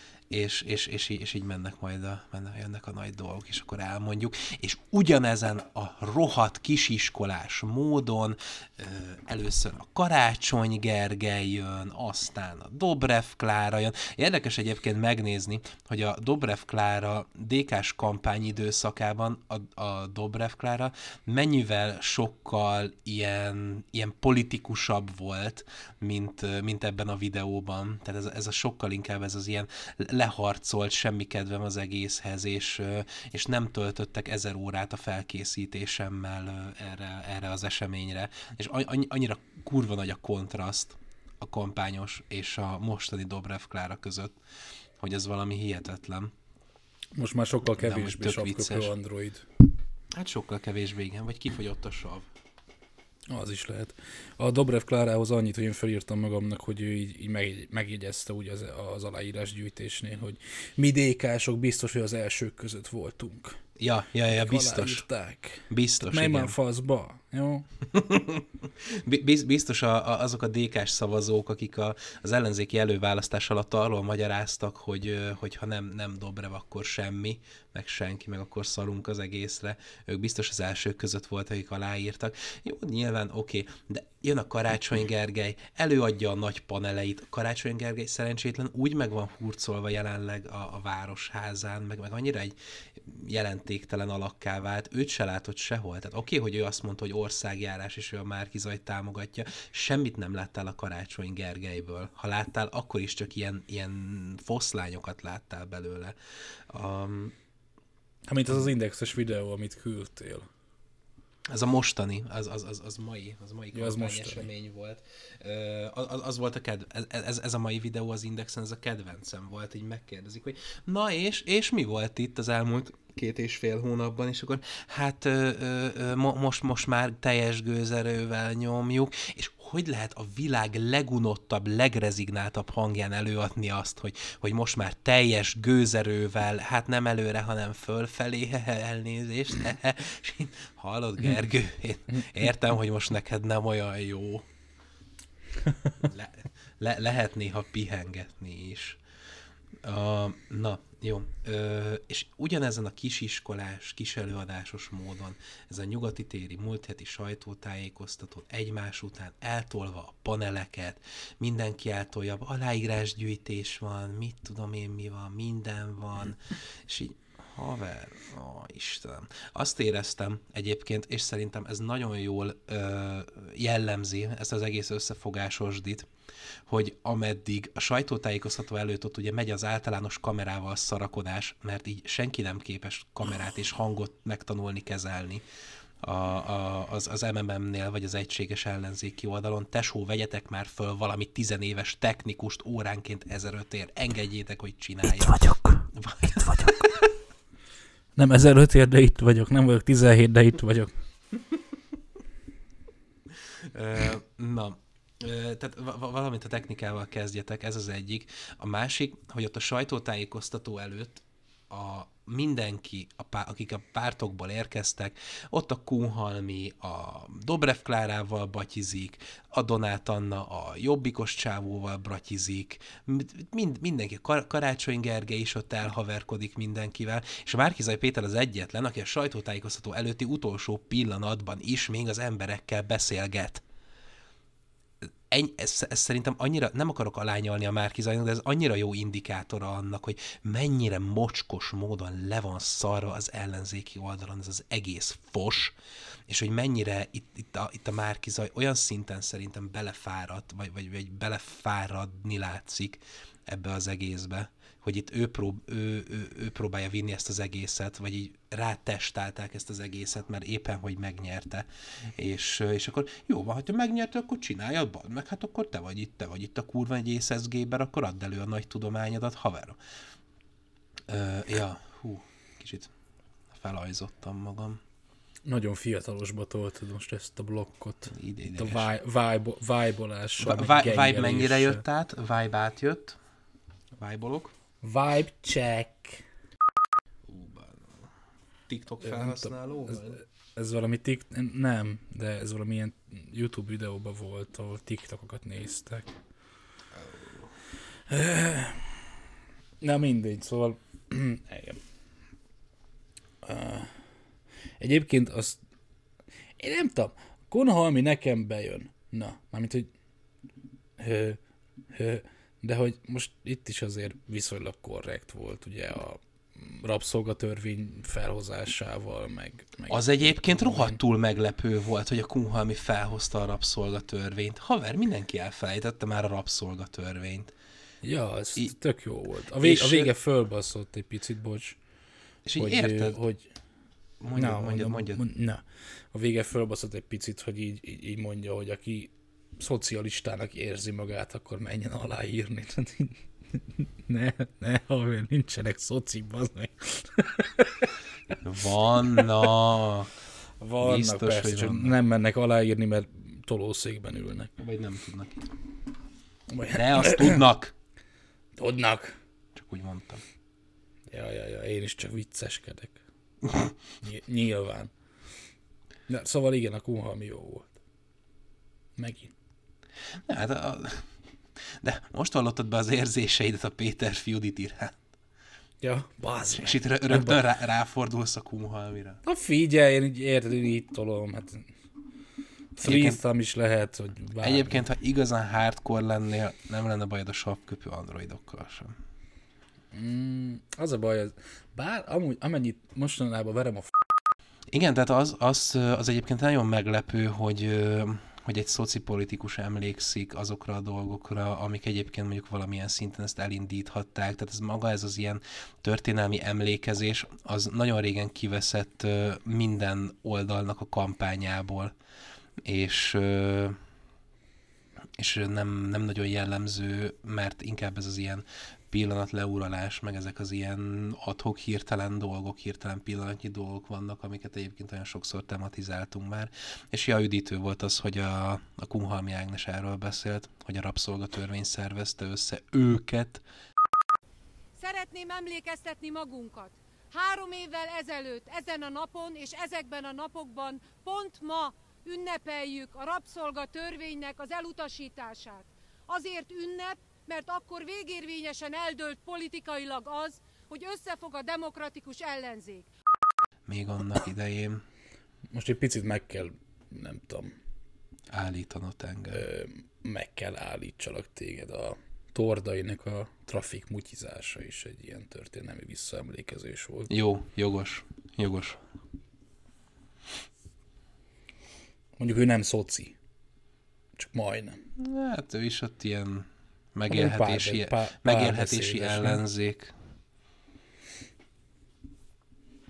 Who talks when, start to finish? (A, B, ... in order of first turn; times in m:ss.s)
0:00.3-0:44.3 A
0:45.0-0:46.3 A
0:47.1-0:49.5 B
0:47.8-0:48.9 A
0:50.1-0:52.3 A
0:53.3-1:03.6 B
1:03.8-1:05.1 A
1:04.2-1:07.6 B
1:05.7-1:06.5 A
1:07.9-1:08.4 A
1:09.0-1:46.1 A
1:46.7-1:47.3 A
1:48.3-1:50.5 B
1:51.5-2:24.5 A
1:53.7-1:54.5 B
2:26.0-2:29.0 A
2:29.8-2:56.1 A
2:56.7-3:05.4 A
3:06.0-3:16.8 A
3:15.2-3:15.8 B
3:18.2-3:20.9 B
3:23.7-3:53.6 A
3:55.3-4:05.7 A
4:06.3-4:29.8 A
4:31.1-4:32.9 A
4:33.5-4:34.8 A
4:35.4-4:41.8 B
4:38.1-4:38.9 A
4:40.4-4:43.2 A
4:44.0-4:44.5 A
4:44.8-4:46.2 B
4:47.3-4:48.1 A
4:48.7-4:50.2 A
4:49.0-4:56.1 B
4:57.0-4:57.4 A
4:58.1-4:59.0 B
4:59.8-5:01.8 B
5:03.4-5:04.0 B
5:04.8-5:05.6 B
5:06.6-5:09.9 B
5:11.0-5:11.4 B
5:11.9-5:21.0 B
5:19.9-5:27.5 A
5:28.0-5:31.8 B
5:29.6-5:30.1 A
5:32.4-5:33.2 A
5:32.6-5:33.5 B
5:34.2-5:35.2 A
5:34.3-5:47.9 B
5:48.4-5:50.1 A
5:50.6-5:54.5 B
5:50.8-5:52.0 A
5:54.6-5:55.5 A
5:56.5-5:57.4 B
5:56.7-5:57.7 A
5:58.6-5:59.2 B
5:59.6-6:00.2 A
6:01.1-6:03.0 B
6:04.0-6:04.9 B
6:06.1-6:07.7 B
6:09.0-6:09.3 B
6:10.3-6:11.0 A
6:11.8-6:15.0 A
6:15.8-6:17.4 B
6:16.6-6:19.2 A
6:19.2-6:21.7 B
6:22.8-6:24.8 B
6:22.8-6:23.2 A
6:24.4-6:29.0 A
6:29.9-6:33.9 B
6:34.7-6:51.9 A
6:52.6-6:53.8 A
6:55.2-7:13.4 A
7:14.8-7:32.9 C
7:33.7-7:34.8 A
7:35.5-7:37.6 B
7:38.3-7:39.4 A
7:39.3-7:47.1 B
7:47.1-7:48.8 A
7:52.2-7:53.2 B
7:54.2-7:54.8 B
7:55.0-7:59.9 A
7:57.1-7:59.4 B